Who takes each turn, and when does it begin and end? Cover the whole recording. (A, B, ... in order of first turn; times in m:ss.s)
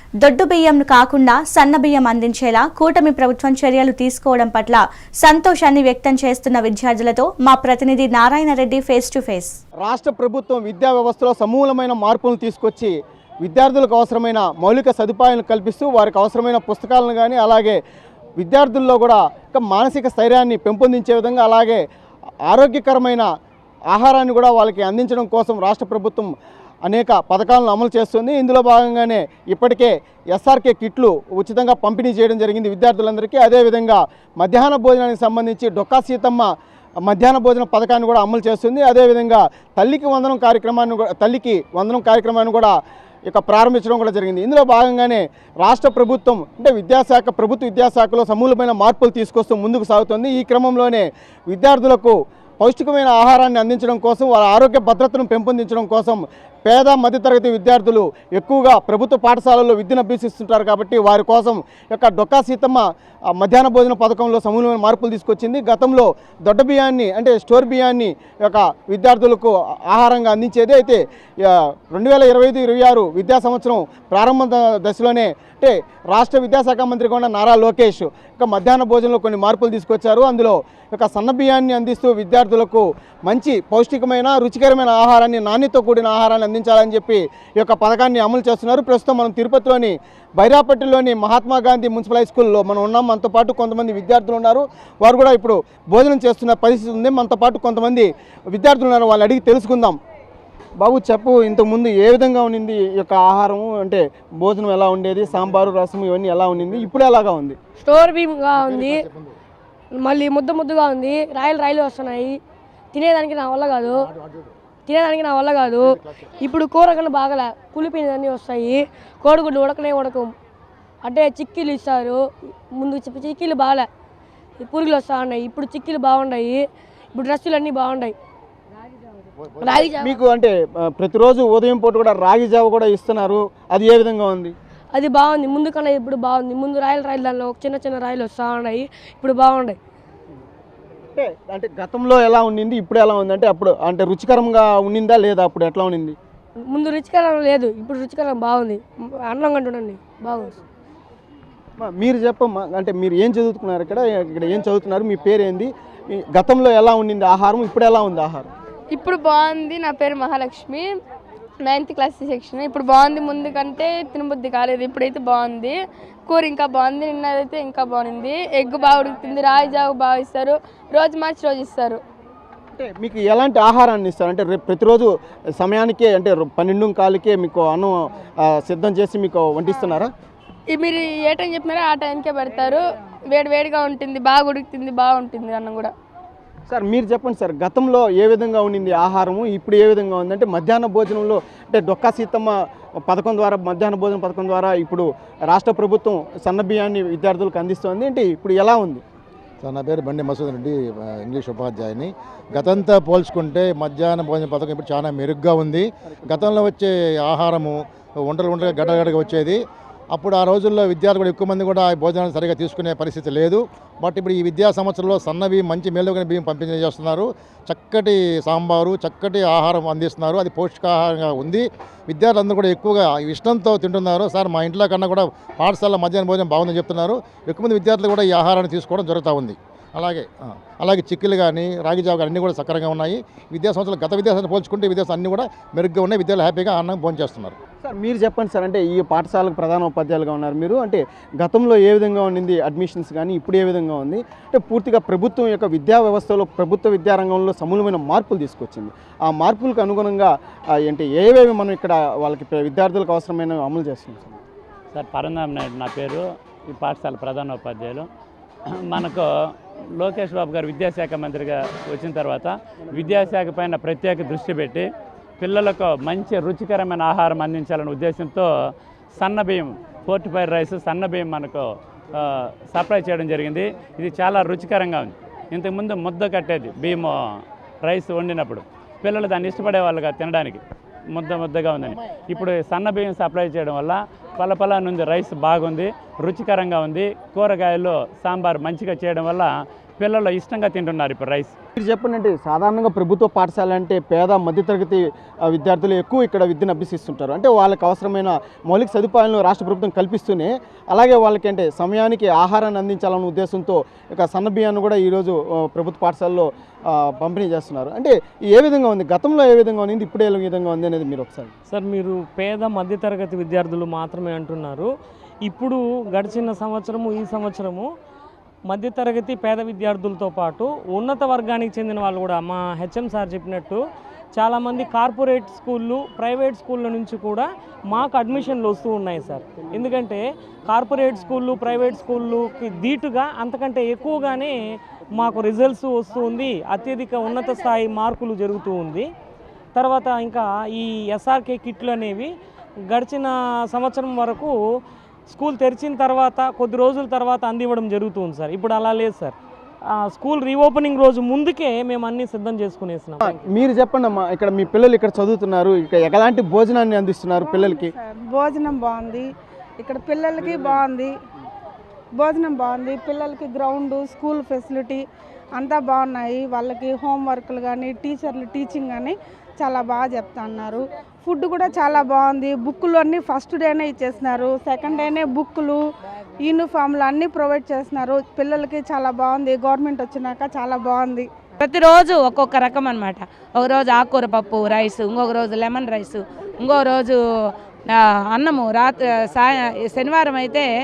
0:00.2-0:09.6 A
0:09.8-0:17.8 B
0:18.4-0:21.8 B
0:22.4-0:23.3 B
0:23.9-0:26.3 B
0:26.8-0:36.5 B
0:37.0-0:42.7 B
0:43.3-1:40.0 B
1:40.8-1:47.6 B
1:47.8-1:49.1 C
1:50.0-1:52.4 C
1:52.9-1:54.0 C
1:54.8-2:00.3 C
2:01.0-2:02.2 C
2:02.8-2:03.9 C
2:04.6-2:06.6 C
2:07.1-2:08.1 C
2:09.6-2:10.1 C
2:09.7-2:14.5 B
2:14.9-2:19.8 C
2:21.2-2:26.2 B
2:26.7-2:30.6 C
2:31.8-2:38.5 B
2:38.9-2:41.0 D
2:41.7-2:45.7 D
2:46.3-2:52.0 D
2:52.8-2:58.0 B
2:58.5-3:00.1 B
3:00.7-3:05.9 D
3:06.7-3:12.5 B
3:13.0-3:19.0 B
3:19.6-3:29.6 E
3:30.1-3:57.6 E
3:57.8-4:10.3 B
4:10.8-4:14.4 B
4:14.9-4:18.1 F
4:18.8-4:19.2 F
4:20.0-4:24.8 F
4:25.4-4:28.5 F
4:29.2-4:37.2 F
4:37.8-4:40.6 F
4:41.1-4:51.5 F
4:51.8-5:11.5 B
5:11.7-5:14.9 G
5:15.4-5:17.9 G
5:18.7-5:23.8 G
5:24.3-5:34.6 G
5:35.1-5:39.1 G
5:39.7-5:42.3 G
5:42.8-5:44.6 G
5:45.3-5:49.3 G
5:49.9-5:53.3 G
5:53.2-5:57.9 B
5:57.4-5:59.2 H
5:59.8-6:01.1 H
6:02.2-6:05.0 H
6:05.6-6:15.8 H
6:16.4-6:21.2 H
6:21.6-6:27.2 I
6:27.9-6:30.7 I